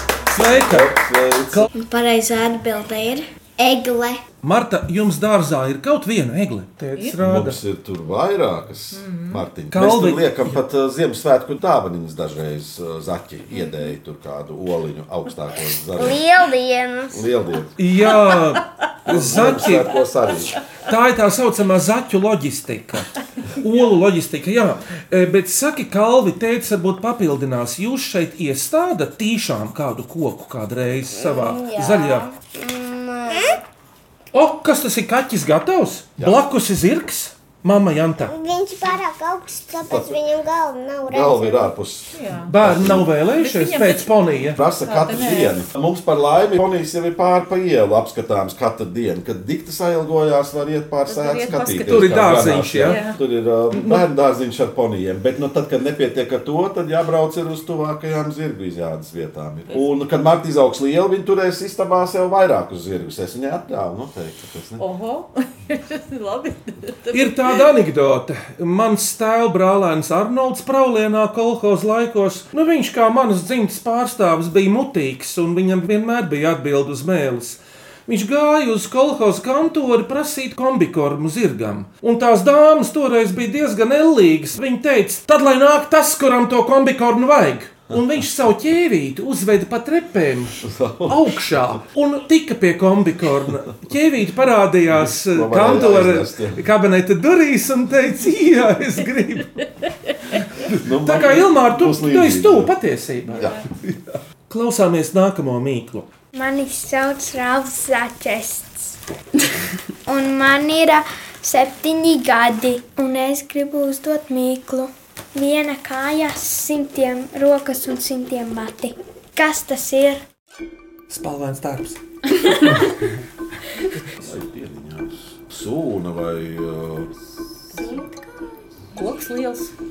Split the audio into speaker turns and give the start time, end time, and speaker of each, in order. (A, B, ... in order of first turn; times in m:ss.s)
0:00.3-0:00.9 A
0:00.6-0:01.6 B
0:01.8-0:04.2 C
0:04.4-0:07.6 A
0:07.2-0:16.2 B
0:08.9-0:09.4 D
0:09.7-0:10.5 A
0:16.0-0:17.3 C
0:17.1-0:17.7 B
0:17.8-0:19.9 A
0:19.0-0:20.5 B
0:20.8-0:32.3 A
0:31.1-0:33.6 C
0:34.3-0:38.3 A
0:38.2-0:41.7 E
0:39.8-0:40.2 B
0:41.1-0:43.1 B
0:42.1-0:42.5 D
0:42.5-0:44.6 A
0:43.4-0:44.1 D
0:44.5-1:04.8 B
0:44.8-0:45.6 D
0:51.1-0:53.2 D
0:51.8-0:53.0 A
0:53.7-0:54.0 A
1:04.8-1:07.6 D
1:07.1-1:39.6 A
1:30.6-1:31.8 B
1:34.9-1:36.6 B
1:40.6-1:43.6 A
1:40.7-1:42.7 B
1:43.3-1:44.0 B
1:44.5-1:46.1 A
1:46.3-1:49.0 F
1:50.1-2:00.2 F
2:01.1-2:02.0 A
2:04.2-2:07.1 B
2:07.7-2:08.0 D
2:09.0-2:09.7 D